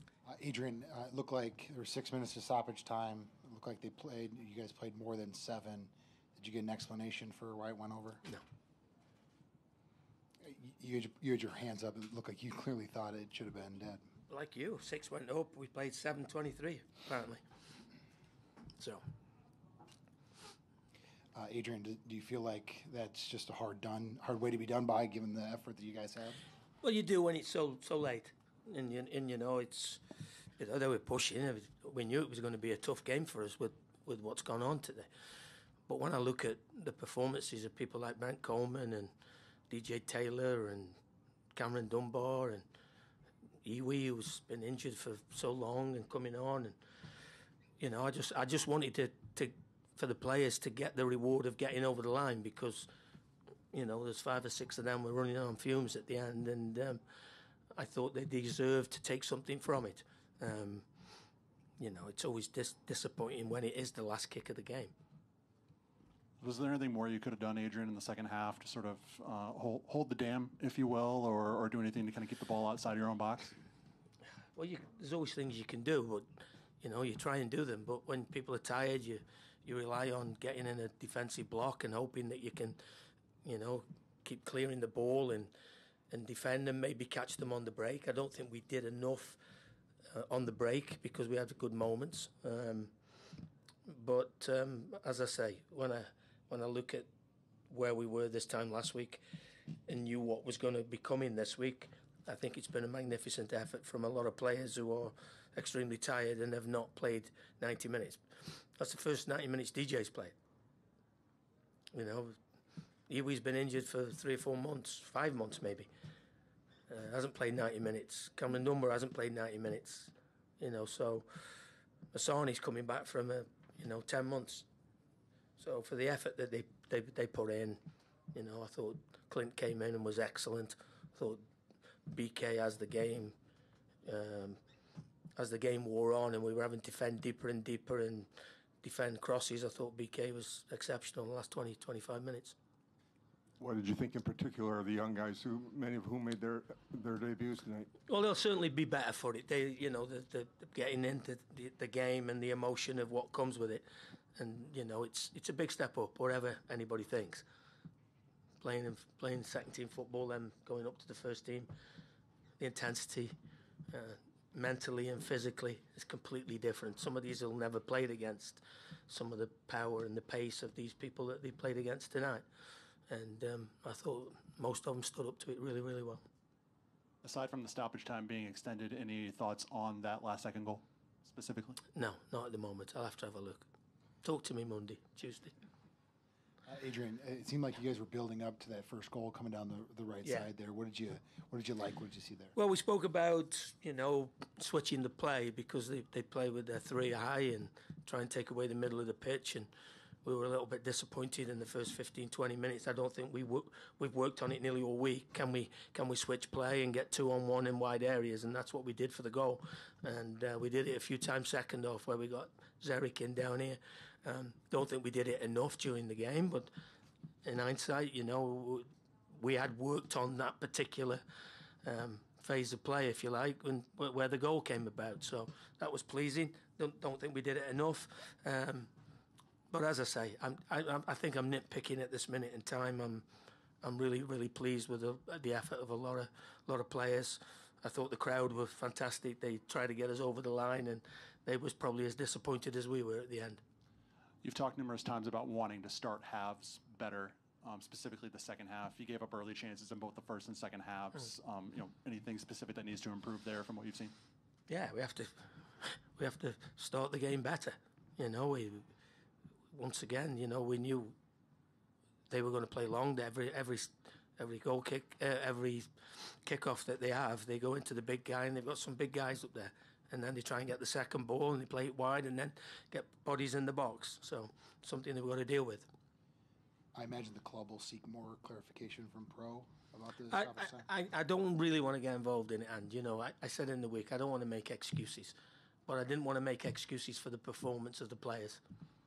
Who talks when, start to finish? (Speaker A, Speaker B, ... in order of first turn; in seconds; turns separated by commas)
Speaker A: 0.2-8.2, Speaker A: 10.4-14.0, Speaker B: 14.3-17.4, Speaker B: 18.8-19.0, Speaker A: 21.3-26.4, Speaker B: 26.8-30.0, Speaker B: 30.6-35.1, Speaker B: 35.9-39.1, Speaker B: 39.7-41.0, Speaker B: 41.5-42.6, Speaker B: 43.6-46.8, Speaker B: 47.8-52.9, Speaker B: 53.7-57.0, Speaker B: 57.7-60.9, Speaker B: 61.8-64.9, Speaker C: 66.4-73.5, Speaker B: 74.5-76.3, Speaker B: 76.8-82.8, Speaker B: 83.4-85.5, Speaker B: 86.1-89.4, Speaker B: 90.1-92.9, Speaker B: 93.8-97.1, Speaker B: 97.7-99.2, Speaker B: 99.9-110.3, Speaker B: 111.9-112.4, Speaker B: 113.1-115.9, Speaker B: 116.9-121.3, Speaker B: 122.1-124.7, Speaker B: 125.6-127.8, Speaker B: 128.3-131.4, Speaker B: 132.1-133.3, Speaker B: 134.0-134.6, Speaker B: 135.3-138.3, Speaker B: 138.8-142.5, Speaker D: 143.6-147.9, Speaker B: 148.1-153.8, Speaker B: 154.3-157.4, Speaker B: 158.6-161.7, Speaker B: 162.6-163.3, Speaker B: 163.9-172.4, Speaker B: 173.1-176.2, Speaker C: 177.2-181.8, Speaker B: 181.9-183.7, Speaker B: 184.2-185.5, Speaker A: 186.7-192.5, Speaker B: 192.5-199.7, Speaker B: 200.2-216.7, Speaker B: 217.4-221.2, Speaker B: 221.8-228.9, Speaker B: 229.7-233.2, Speaker B: 233.8-243.6, Speaker C: 244.4-254.1, Speaker B: 254.7-258.9, Speaker B: 259.7-261.1, Speaker B: 262.3-275.9, Speaker A: 276.9-280.9, Speaker B: 280.3-285.3, Speaker B: 285.9-288.6